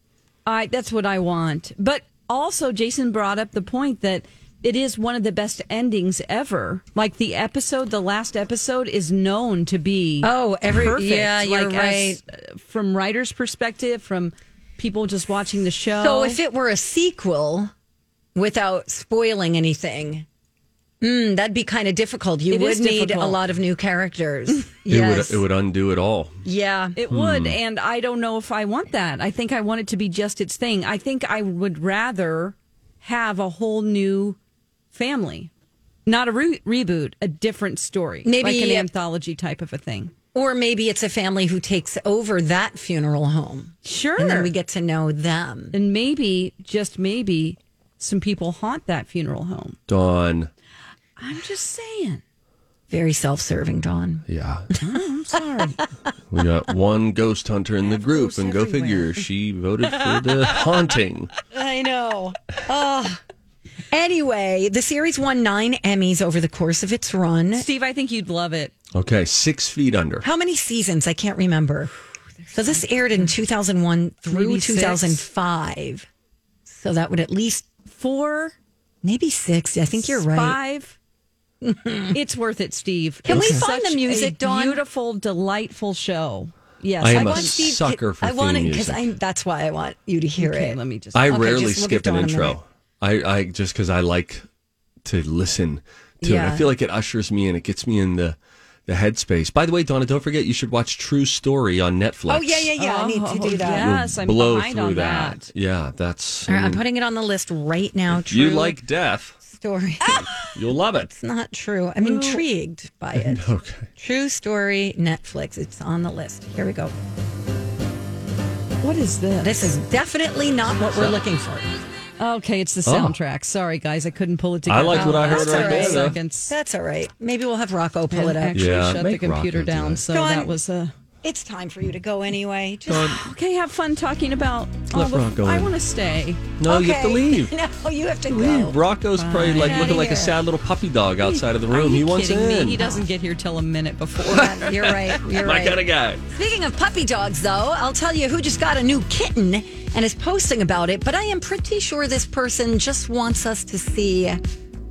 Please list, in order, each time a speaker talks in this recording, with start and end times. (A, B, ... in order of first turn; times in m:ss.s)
0:00.4-0:16.4 A
0:10.2-0:12.2 B
0:15.9-0:17.7 B
0:18.3-0:20.2 B
0:21.0-0:25.4 B
0:22.5-0:23.4 A
0:24.9-0:26.4 C
0:26.4-0:27.0 B
0:27.0-0:34.4 A
0:27.1-0:27.6 C
0:34.9-0:35.5 A
0:36.0-0:40.1 A
0:38.2-0:38.9 B
0:40.3-0:45.8 B
0:43.8-0:44.5 A
0:45.7-0:49.8 A
0:49.9-0:50.5 C
0:51.2-0:52.2 A
0:52.9-0:54.2 B
0:54.3-0:54.7 C
0:54.8-0:55.8 A
0:56.3-1:01.3 C
0:57.9-0:59.1 B
1:01.5-1:03.2 B
1:03.9-1:07.7 B
1:07.6-1:08.7 A
1:08.9-1:10.2 C
1:10.2-1:11.9 B
1:12.5-1:16.1 B
1:14.3-1:15.2 A
1:16.7-1:17.9 B
1:17.9-1:18.5 A
1:19.0-1:20.6 B
1:20.0-1:20.9 A
1:21.6-1:22.2 B
1:22.1-1:27.8 A
1:23.2-1:24.8 B
1:27.0-1:29.1 C
1:27.0-1:32.6 B
1:30.4-1:31.3 A
1:31.1-1:34.4 C
1:35.0-1:42.7 C
1:36.2-1:36.7 B
1:42.3-1:43.9 B
1:42.8-1:45.5 A
1:43.8-1:46.8 C
1:46.5-1:48.8 B
1:48.1-1:49.4 C
1:49.4-1:53.4 B
1:50.5-1:51.1 C
1:52.0-1:52.4 A
1:53.1-1:53.9 C
1:54.0-1:56.9 B
1:58.8-1:59.5 A
1:59.4-2:01.6 B
2:02.2-2:06.5 A
2:02.8-2:03.2 C
2:04.7-2:06.2 C
2:04.9-2:08.7 B
2:08.1-2:10.9 A
2:08.5-2:10.0 C
2:10.1-2:10.5 B
2:11.2-2:13.2 B
2:12.9-2:13.2 C
2:13.0-2:16.6 A
2:14.9-2:15.7 C
2:16.6-2:17.5 C
2:16.6-2:18.8 B
2:18.3-2:22.8 C
2:19.2-2:20.4 A
2:19.6-2:20.3 B
2:21.2-2:25.0 A
2:24.2-2:26.2 C
2:24.3-2:34.4 B